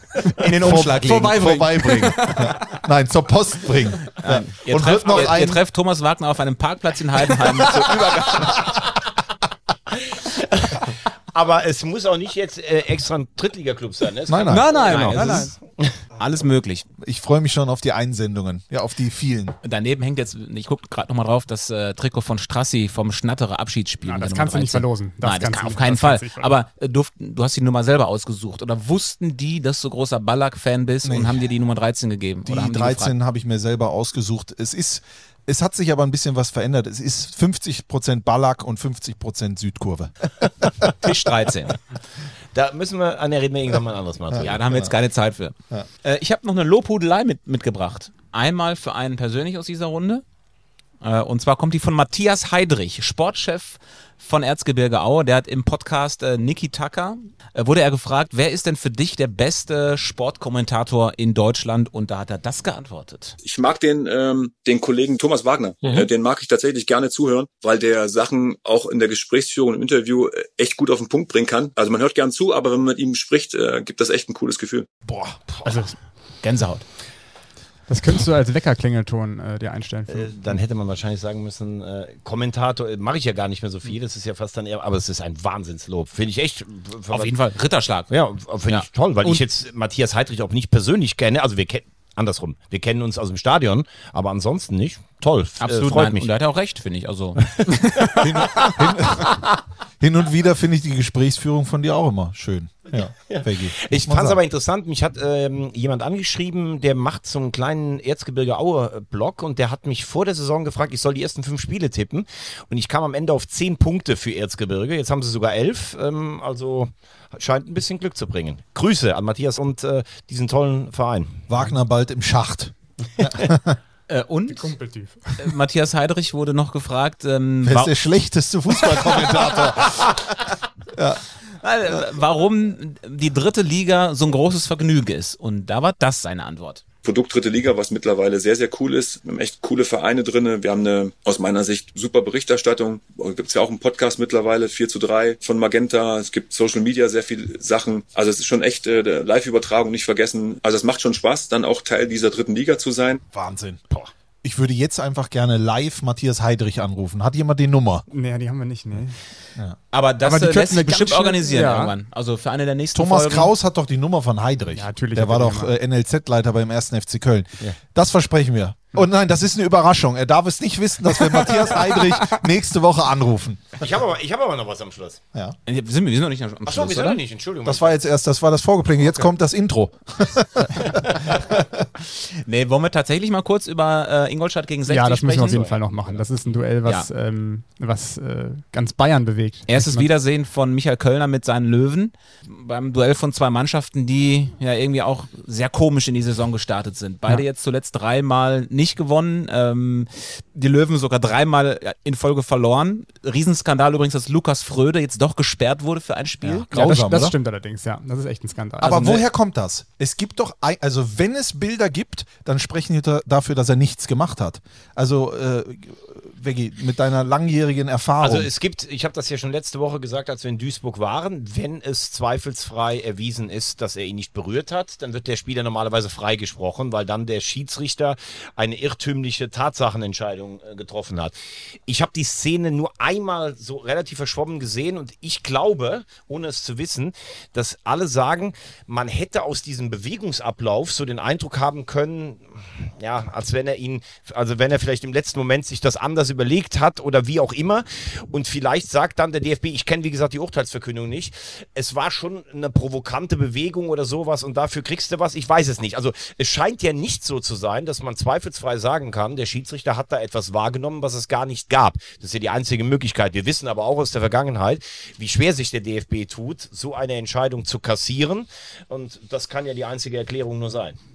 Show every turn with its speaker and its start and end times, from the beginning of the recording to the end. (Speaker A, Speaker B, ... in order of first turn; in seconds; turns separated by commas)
Speaker A: 0.2-2.5, Speaker B: 0.4-5.6, Speaker C: 0.4-1.5, Speaker C: 4.2-8.7, Speaker D: 5.1-5.3, Speaker D: 9.9-15.9, Speaker B: 14.3-15.4, Speaker A: 14.5-15.5, Speaker C: 14.5-15.5, Speaker C: 16.2-16.9, Speaker B: 17.0-19.6, Speaker C: 19.6-33.1, Speaker A: 24.0-26.5, Speaker B: 31.0-31.4, Speaker B: 32.5-40.7, Speaker C: 40.9-41.8, Speaker D: 42.5-44.9, Speaker B: 44.3-44.9, Speaker C: 44.4-50.2, Speaker C: 51.0-63.4, Speaker E: 63.4-74.9, Speaker A: 75.7-75.9, Speaker C: 76.4-76.8, Speaker A: 77.9-80.3, Speaker D: 80.1-87.3, Speaker C: 87.1-88.1, Speaker D: 88.1-96.3, Speaker C: 95.6-97.6, Speaker D: 97.5-99.5, Speaker B: 98.2-99.4, Speaker B: 100.0-104.4, Speaker D: 103.2-121.5, Speaker B: 121.5-123.8, Speaker C: 124.1-124.7, Speaker A: 124.5-125.5, Speaker C: 125.4-128.1, Speaker B: 127.6-130.1, Speaker C: 129.2-129.6, Speaker B: 130.9-131.2, Speaker C: 131.6-136.8, Speaker E: 137.0-153.2, Speaker B: 153.3-153.8, Speaker B: 154.4-158.0, Speaker A: 158.1-159.2, Speaker C: 159.9-163.5, Speaker A: 160.2-161.9, Speaker B: 162.9-173.9, Speaker A: 164.7-165.7, Speaker D: 173.8-175.2, Speaker C: 175.7-177.2, Speaker D: 176.6-178.0, Speaker B: 177.7-181.8, Speaker C: 182.1-185.7, Speaker A: 184.8-190.1, Speaker D: 185.4-186.2, Speaker C: 189.7-206.7, Speaker B: 206.5-207.3, Speaker A: 206.7-209.2, Speaker B: 208.8-218.5, Speaker D: 218.2-271.0